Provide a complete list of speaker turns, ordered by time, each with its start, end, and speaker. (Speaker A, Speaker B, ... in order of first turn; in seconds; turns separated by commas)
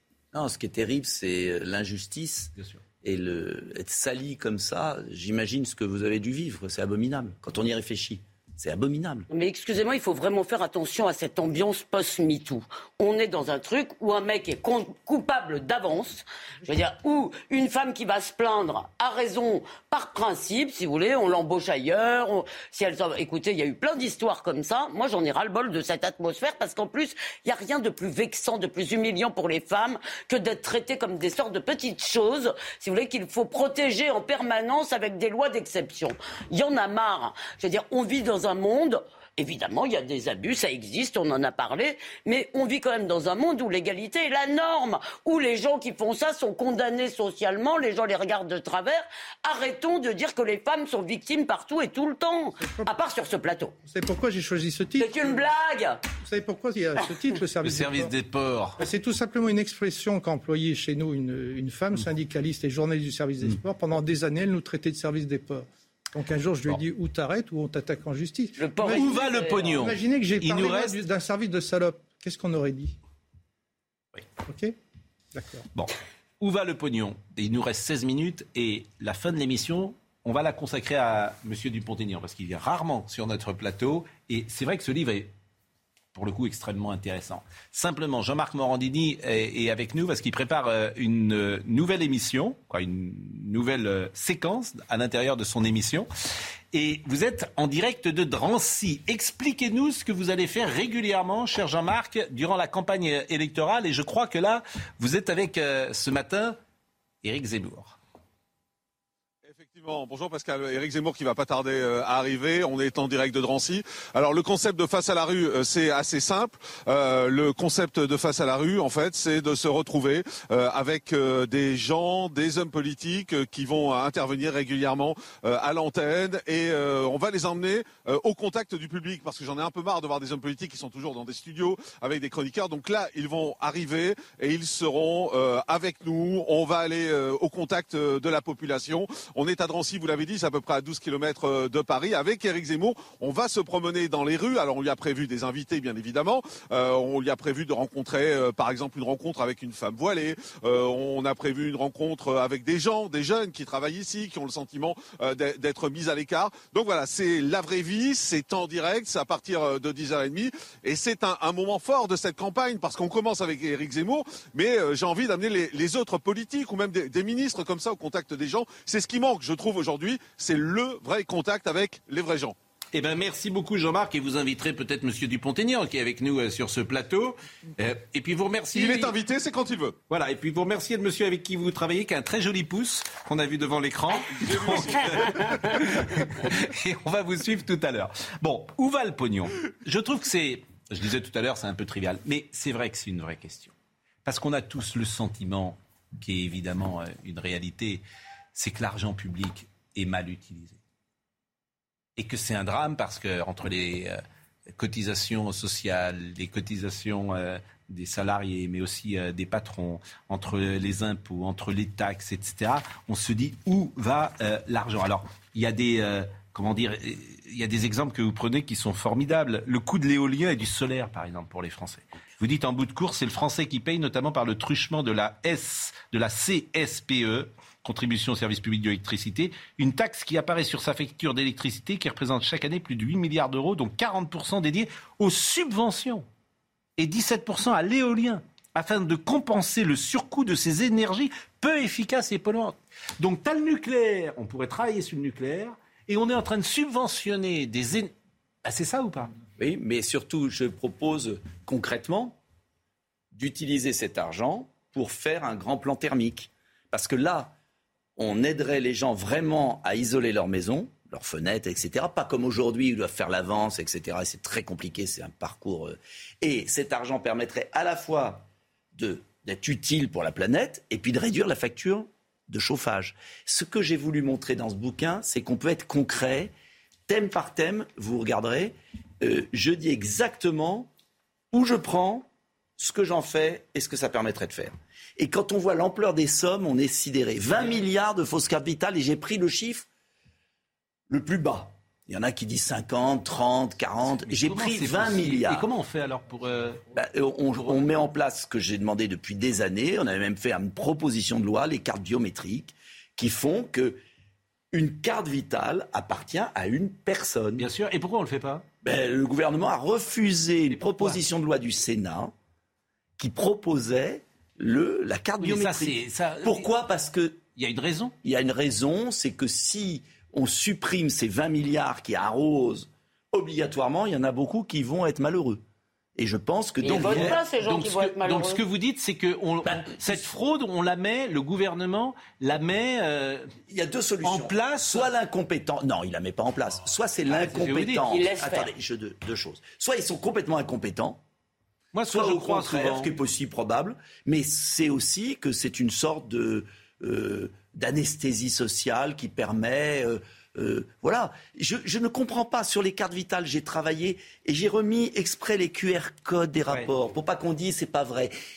Speaker A: 0.3-9.3, Speaker B: 9.3-53.8, Speaker C: 52.6-52.9, Speaker C: 53.8-55.4, Speaker B: 55.0-56.0, Speaker C: 56.2-58.1, Speaker D: 57.6-58.8, Speaker C: 58.8-69.2, Speaker B: 68.6-69.8, Speaker D: 68.8-71.0, Speaker C: 69.8-73.0, Speaker C: 74.5-74.8, Speaker C: 75.3-75.7, Speaker D: 75.8-85.3, Speaker D: 86.1-96.1, Speaker D: 96.7-106.6, Speaker D: 107.2-108.0, Speaker E: 109.5-172.6, Speaker D: 172.9-179.2, Speaker E: 178.7-180.0, Speaker D: 180.1-193.7, Speaker E: 184.4-185.3, Speaker D: 194.2-198.0, Speaker D: 198.6-200.8, Speaker D: 202.2-204.2, Speaker D: 204.7-236.2, Speaker D: 237.0-248.1, Speaker D: 248.7-249.3, Speaker A: 249.6-252.4, Speaker A: 253.3-257.6, Speaker A: 258.2-276.5, Speaker A: 277.1-280.9, Speaker A: 281.5-289.9, Speaker D: 287.5-287.8, Speaker A: 291.1-295.6, Speaker D: 294.1-296.9, Speaker A: 296.9-304.0, Speaker D: 297.6-297.9, Speaker A: 304.7-307.7, Speaker D: 307.6-308.6, Speaker A: 308.8-312.3, Speaker A: 313.2-317.4, Speaker D: 315.4-316.7, Speaker D: 317.6-318.1, Speaker A: 318.2-325.6, Speaker A: 326.2-327.4, Speaker B: 326.8-328.6, Speaker D: 326.8-333.5, Speaker A: 329.6-330.2, Speaker A: 333.7-341.2, Speaker D: 334.2-335.1, Speaker D: 337.3-338.1, Speaker B: 338.0-338.7, Speaker D: 341.9-343.1, Speaker A: 342.1-358.3